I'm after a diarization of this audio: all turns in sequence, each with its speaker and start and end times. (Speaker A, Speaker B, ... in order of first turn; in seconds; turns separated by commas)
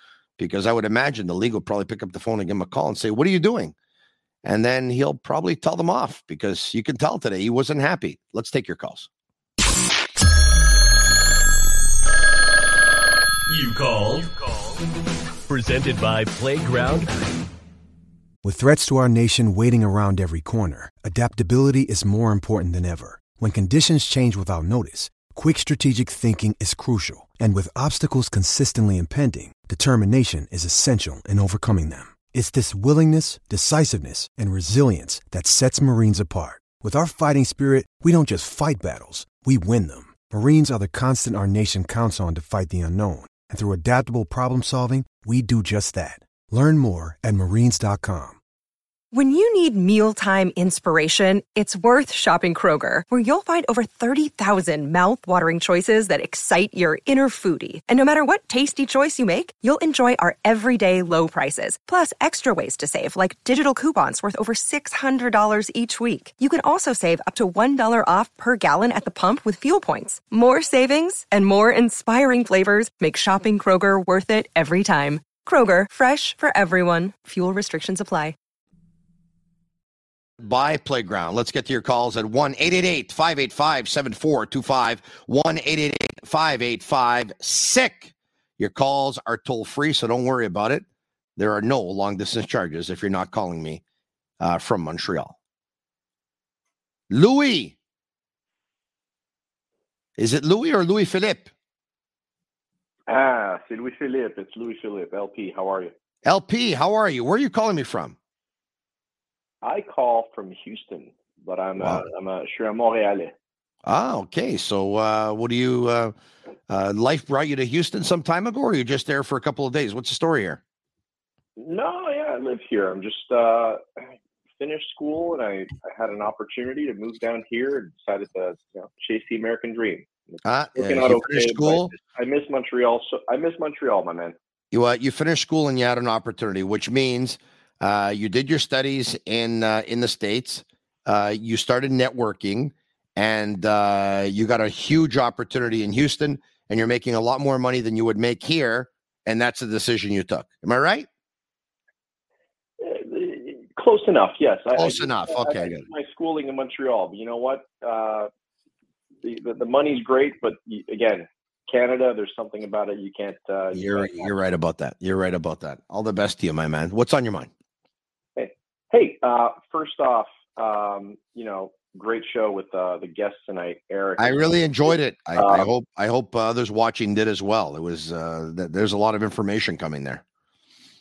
Speaker A: 0.4-3.7, Speaker A: 4.4-9.1, Speaker B: 13.5-14.8, Speaker B: 15.5-17.2, Speaker C: 18.4-48.4, Speaker D: 49.1-78.3, Speaker A: 80.4-90.8, Speaker A: 91.4-93.8, Speaker A: 94.4-95.4, Speaker A: 97.1-97.8, Speaker A: 100.2-101.5, Speaker E: 103.1-105.9, Speaker A: 106.2-108.2, Speaker E: 109.6-113.3, Speaker A: 111.8-112.0, Speaker A: 113.8-116.1, Speaker A: 116.7-120.6, Speaker E: 121.6-123.8, Speaker E: 124.6-134.3, Speaker A: 130.4-131.9, Speaker A: 134.7-151.1, Speaker E: 152.8-158.3, Speaker A: 154.8-155.8, Speaker E: 159.2-164.5, Speaker A: 163.7-167.5, Speaker E: 168.3-175.7, Speaker A: 174.2-180.2